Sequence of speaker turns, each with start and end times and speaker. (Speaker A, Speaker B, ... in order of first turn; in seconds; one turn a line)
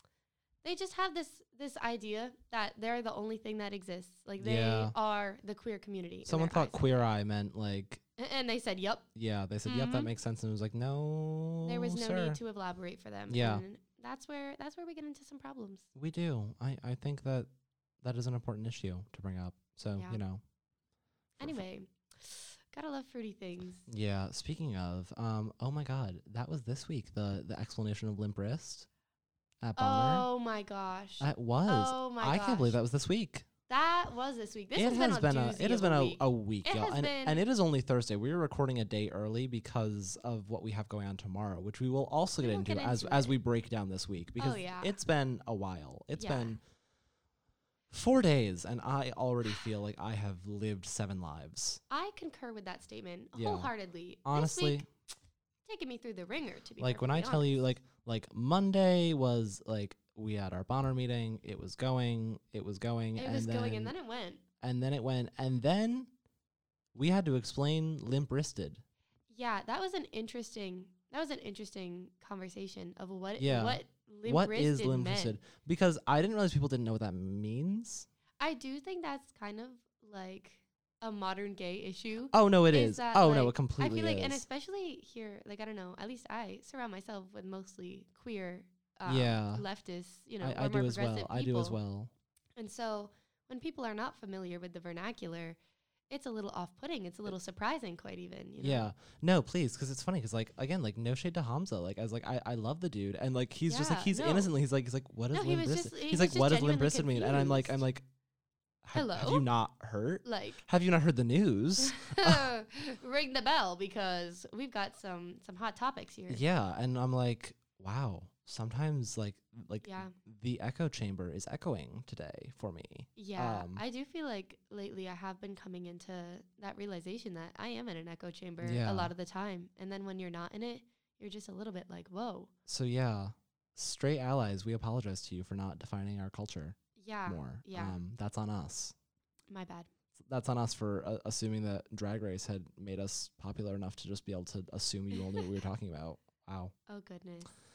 Speaker A: 0.6-7.0
Speaker B: 4.4-5.0
Speaker B: 6.2-8.0
Speaker A: 8.2-9.1
Speaker B: 9.2-12.4
Speaker A: 9.7-10.1
Speaker A: 11.7-15.9
Speaker B: 13.3-13.6
Speaker B: 15.9-17.5
Speaker B: 18.0-20.4
Speaker A: 19.9-20.2
Speaker A: 21.4-23.9
Speaker B: 23.9-28.9
Speaker B: 29.6-30.3
Speaker A: 29.8-32.8
Speaker B: 31.2-33.5
Speaker A: 33.7-37.4
Speaker B: 34.8-46.6
Speaker A: 42.4-43.3
Speaker A: 44.4-45.0
Speaker A: 46.2-46.6
Speaker B: 47.9-51.8
Speaker A: 51.9-54.9
Speaker B: 53.3-53.7
Speaker B: 54.2-54.9
Speaker A: 55.7-57.6
Speaker B: 56.8-63.9
Speaker A: 63.2-64.4
Speaker B: 64.6-66.1
Speaker B: 66.9-68.8
Speaker A: 69.3-75.4
Speaker B: 73.4-78.1
Speaker A: 78.4-91.8
Speaker B: 82.3-84.4
Speaker B: 89.1-89.7
Speaker B: 90.4-92.1
Speaker A: 92.6-95.6
Speaker A: 96.1-98.9
Speaker B: 98.6-108.0
Speaker A: 103.7-104.5
Speaker A: 105.3-107.8
Speaker B: 108.8-112.5
Speaker A: 109.0-109.5
Speaker A: 110.2-110.6
Speaker A: 111.8-116.4
Speaker B: 116.3-123.8
Speaker A: 119.8-120.1
Speaker A: 123.2-132.5
Speaker B: 128.6-129.1
Speaker B: 132.7-138.9
Speaker A: 137.0-138.0
Speaker A: 139.5-139.9
Speaker B: 140.3-146.7
Speaker A: 146.9-147.5